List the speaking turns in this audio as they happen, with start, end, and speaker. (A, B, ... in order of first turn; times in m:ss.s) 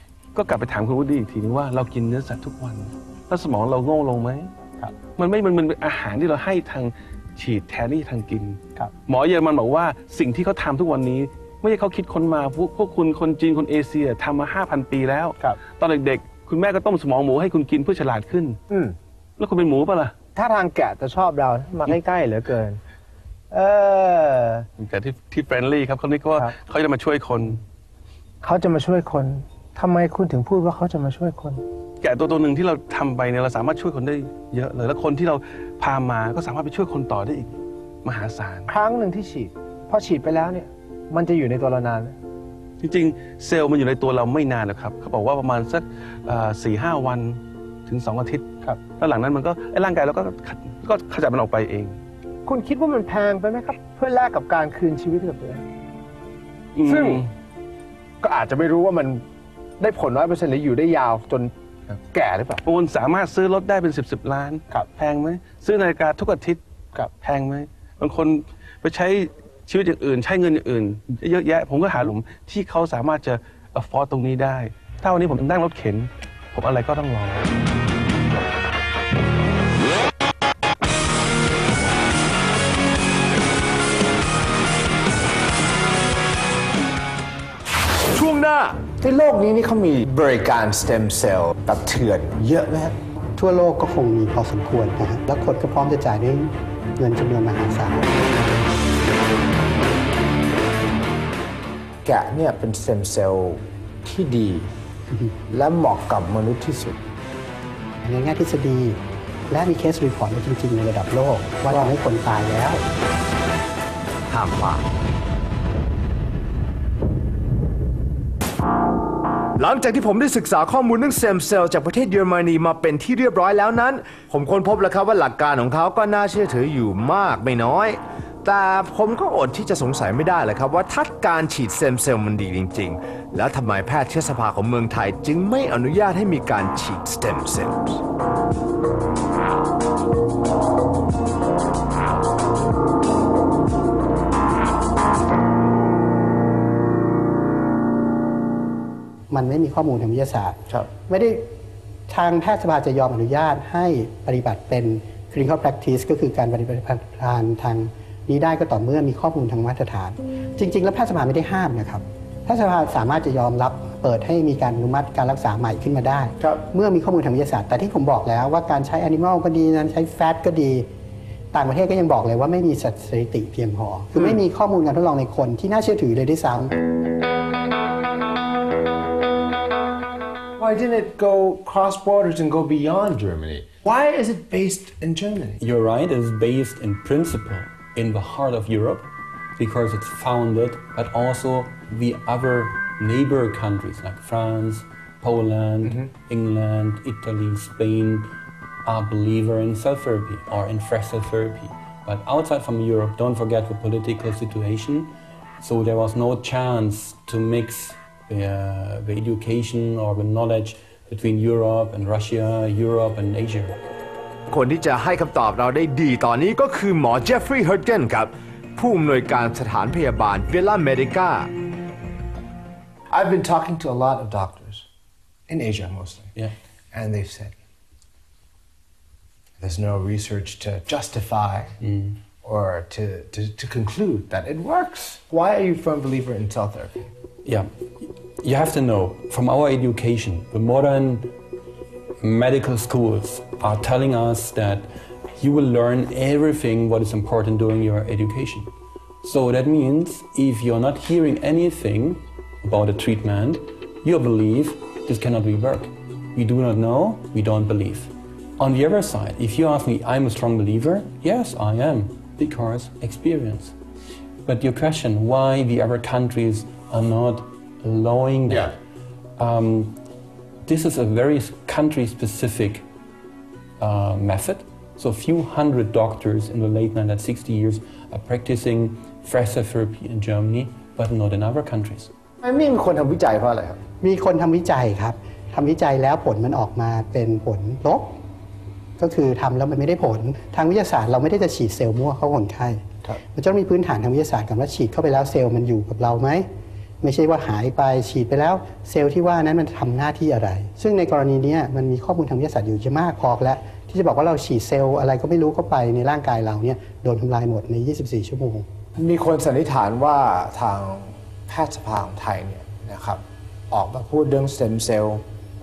0:00.4-0:04.5 A
0:05.2-0:18.6 A
0:18.7-0:19.0 B
0:19.4-0:20.2 A
0:20.4-0:22.8 B
0:23.5-0:24.7 B
0:24.8-0:27.6 A
0:28.4-0:31.6 B
0:32.0-0:38.7 A
0:38.7-0:42.2 B
0:42.8-0:52.0 A
0:52.4-0:55.7 B
0:56.8-0:57.3 A
0:56.8-0:57.3 B
0:58.2-0:59.2 B
0:59.8-1:02.6 B
1:02.6-1:06.6 A
1:07.2-1:17.5 A
1:28.1-1:28.8 C
1:28.9-1:33.0 B
1:33.4-1:38.4 D
1:42.0-1:44.7 B
1:45.5-1:47.0 B
1:48.0-1:52.8 D
1:54.3-1:54.8 C
1:59.6-2:18.0 C
2:29.3-2:31.5 D
2:32.1-2:50.9 D
2:51.5-2:56.8 D
3:00.6-3:05.6 B
3:05.6-3:18.3 E
3:18.8-3:33.8 E
3:34.5-3:41.5 C
3:43.1-3:44.9 B
3:45.5-3:46.3 B
3:46.9-3:47.6 B
3:49.6-3:51.8 B
3:51.8-3:52.2 E
3:52.4-3:57.1 B
3:57.4-4:01.3 E
4:02.2-4:08.7 E
4:09.2-4:23.7 E
4:24.4-4:28.8 E
4:29.4-4:30.0 E
4:30.7-4:32.9 E
4:33.8-4:42.1 E
4:42.4-4:43.8 B
4:44.0-4:48.2 D
4:49.0-4:56.5 D
4:57.0-5:08.7 D
5:09.0-5:15.2 B